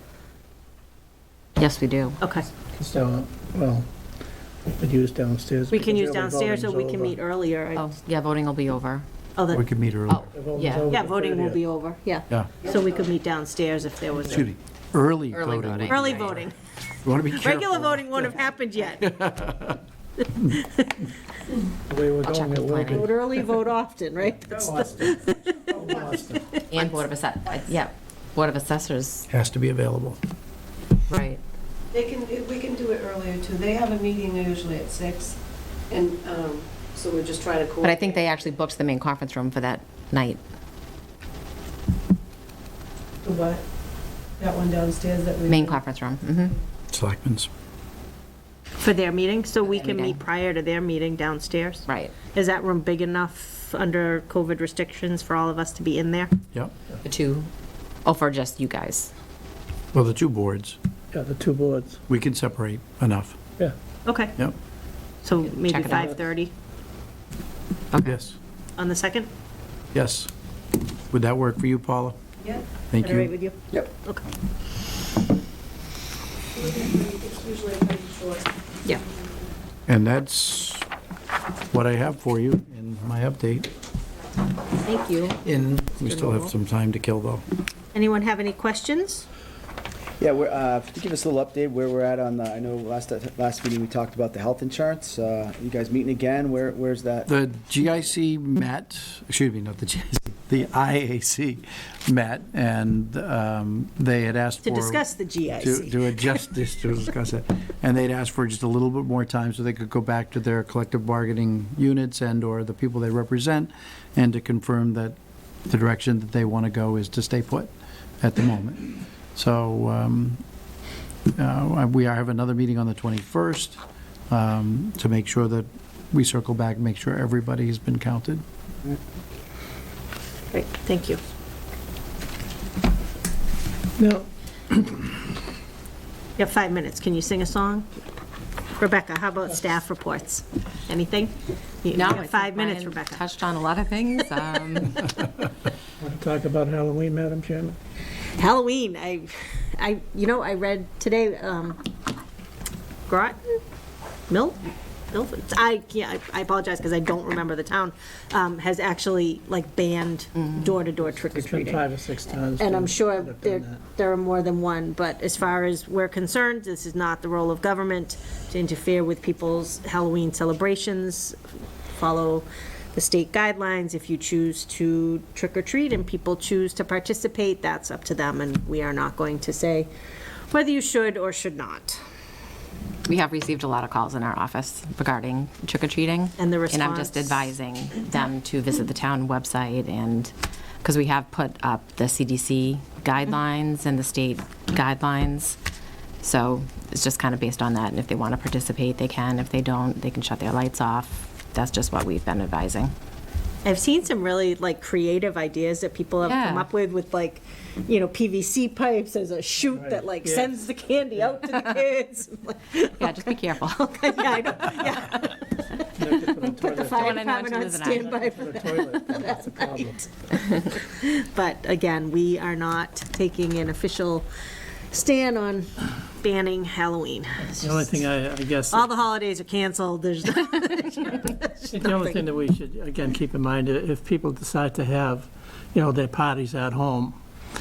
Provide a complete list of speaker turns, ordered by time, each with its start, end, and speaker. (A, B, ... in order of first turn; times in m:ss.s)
0:01.6-0:02.2 A
0:02.2-0:02.5 B
0:02.8-0:03.9 C
0:04.7-0:07.2 C
0:05.7-0:07.9 B
0:07.8-0:09.0 A
0:09.4-0:09.6 B
0:09.5-0:10.3 D
0:10.1-0:10.9 A
0:10.3-0:11.6 C
0:10.9-0:14.5 B
0:14.3-0:16.3 D
0:15.3-0:16.4 A
0:15.9-0:16.6 B
0:17.0-0:18.2 D
0:17.3-0:19.2 B
0:19.1-0:19.8 D
0:20.4-0:21.0 B
0:21.9-0:23.1 C
0:22.2-0:23.1 A
0:22.9-0:27.0 B
0:24.5-0:26.6 C
0:26.7-0:29.3 A
0:29.3-0:30.2 D
0:31.1-0:31.4 A
0:31.9-0:35.4 E
0:35.9-0:38.2 E
0:37.8-0:40.4 A
0:43.2-0:43.6 E
0:44.4-0:45.8 E
0:45.5-0:46.6 A
0:46.9-0:47.5 D
0:48.8-0:56.3 B
0:49.6-0:50.2 A
0:51.9-0:52.1 A
0:57.0-0:57.5 A
0:58.0-0:59.1 A
0:59.9-1:00.8 D
1:01.1-1:02.0 C
1:02.1-1:03.4 D
1:04.0-1:04.4 B
1:05.2-1:06.5 B
1:05.5-1:06.1 A
1:05.9-1:06.2 C
1:08.0-1:08.4 D
1:08.8-1:09.3 B
1:09.9-1:10.3 D
1:11.1-1:12.2 D
1:12.9-1:13.3 D
1:13.0-1:14.2 B
1:16.6-1:18.5 E
1:19.9-1:20.8 D
1:21.7-1:23.7 D
1:24.8-1:25.4 B
1:25.4-1:27.4 D
1:26.0-1:26.5 B
1:27.9-1:29.3 B
1:30.2-1:37.3 F
1:37.3-1:55.2 D
1:44.6-1:46.2 B
1:55.7-2:00.4 D
2:01.4-2:03.8 D
2:04.3-2:08.4 D
2:10.5-2:11.2 B
2:14.0-2:15.2 C
2:16.4-2:17.9 B
2:18.8-2:23.3 B
2:21.9-2:25.2 A
2:25.9-2:27.8 C
2:28.4-2:31.9 B
2:33.1-2:33.6 B
2:34.3-2:34.6 B
2:35.1-2:41.8 B
2:41.0-2:43.8 C
2:42.6-2:51.4 B
2:51.9-2:59.9 B
3:00.5-3:02.0 B
3:03.1-3:15.6 A
3:06.4-3:07.5 B
3:16.2-3:22.9 A
3:23.6-3:35.9 B
3:26.2-3:26.7 A
3:29.8-3:30.6 C
3:31.5-3:31.8 A
3:33.0-3:34.0 A
3:36.0-3:37.2 C
3:36.6-3:44.3 B
3:37.0-3:38.3 A
3:38.2-3:40.0 C
3:44.9-3:45.7 B
3:46.2-3:48.0 B
3:47.6-3:48.9 C
3:48.7-3:52.3 B
3:51.7-3:57.2 C